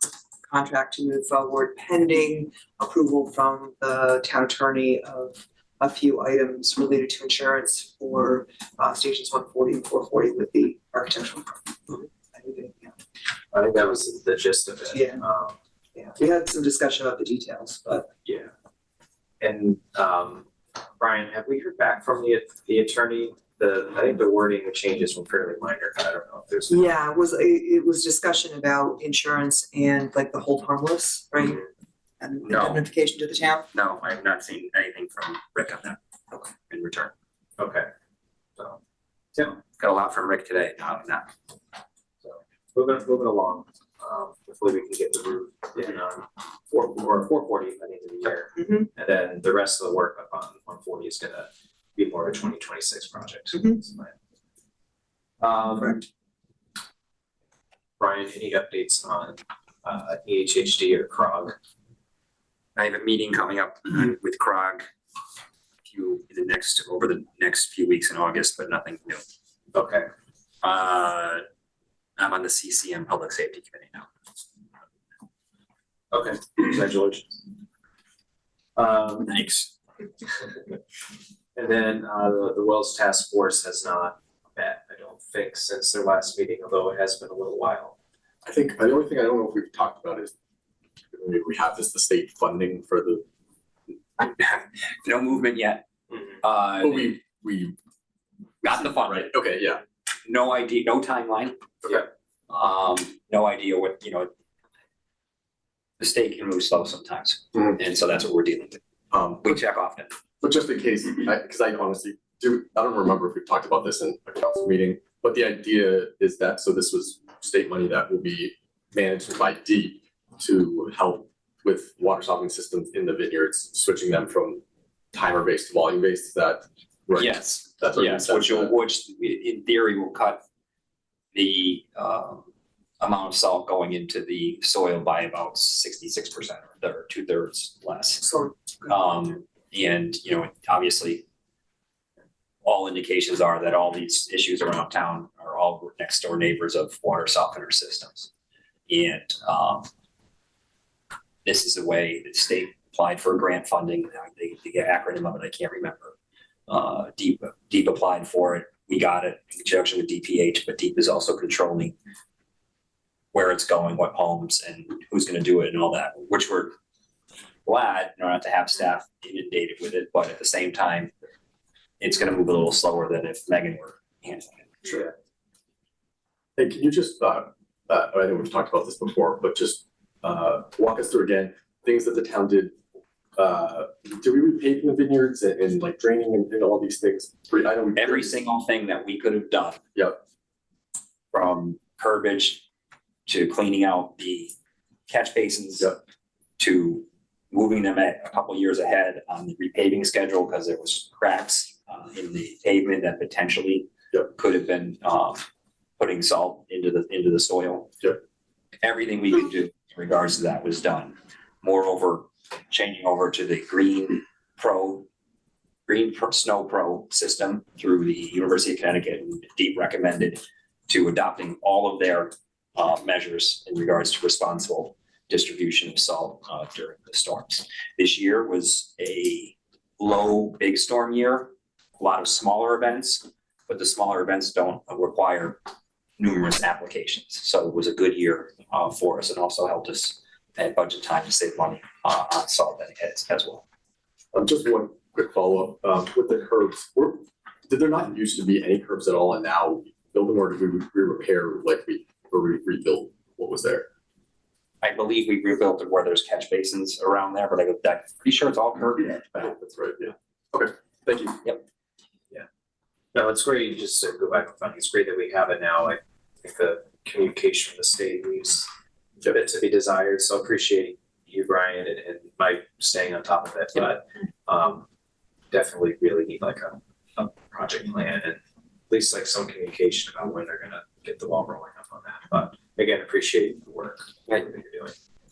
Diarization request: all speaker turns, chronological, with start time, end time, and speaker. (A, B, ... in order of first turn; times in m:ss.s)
0:00.5-0:13.0 A
0:13.5-0:15.6 B
0:14.9-0:15.2 A
0:16.0-0:18.1 A
0:18.2-0:18.5 B
0:19.4-0:20.5 B
0:21.0-0:26.9 B
0:26.7-0:31.6 A
0:32.2-0:33.7 A
0:32.5-0:32.8 C
0:33.7-0:37.1 C
0:37.6-0:37.9 B
0:39.4-0:39.7 B
0:39.7-0:41.3 C
0:42.2-0:54.1 B
0:48.6-0:48.9 A
0:55.4-0:56.0 B
0:58.0-1:01.6 B
1:02.8-1:04.9 C
1:05.8-1:09.2 C
1:09.7-1:10.1 B
1:10.6-1:11.4 C
1:12.2-1:14.1 C
1:16.1-1:17.5 B
1:18.8-1:19.6 B
1:19.3-1:19.7 C
1:20.3-1:20.7 B
1:21.6-1:28.0 B
1:28.4-1:30.3 D
1:31.1-1:33.2 D
1:34.2-1:35.9 C
1:36.4-1:37.1 C
1:36.8-1:37.8 D
1:38.6-1:39.3 C
1:39.1-1:39.8 D
1:40.2-1:41.6 C
1:42.5-1:44.3 C
1:46.0-1:48.8 C
1:49.1-1:49.6 D
1:49.4-1:50.2 C
1:50.4-2:04.6 D
2:05.1-2:08.7 D
2:07.2-2:10.4 C
2:11.3-2:12.5 C
2:13.0-2:18.3 C
2:18.2-2:18.5 A
2:18.8-2:21.2 C
2:22.6-2:28.3 C
2:28.9-2:29.9 C
2:31.4-2:36.2 C
2:36.7-2:42.0 C
2:43.3-2:46.8 C
2:47.6-2:51.1 C
2:52.0-2:54.9 C
2:56.6-3:02.8 D
3:03.4-3:08.3 D
3:08.0-3:09.8 C
3:11.3-3:12.6 C
3:13.3-3:14.5 C
3:15.1-3:15.9 C
3:16.6-3:25.4 C
3:26.0-3:27.9 C
3:28.8-3:35.1 C
3:35.9-3:55.6 C
3:56.2-4:03.6 C
4:04.3-4:13.9 D
4:14.8-4:19.6 C
4:19.5-4:21.5 D
4:23.1-4:28.7 B
4:29.3-4:34.8 B
4:35.5-4:38.4 B
4:38.9-4:44.9 B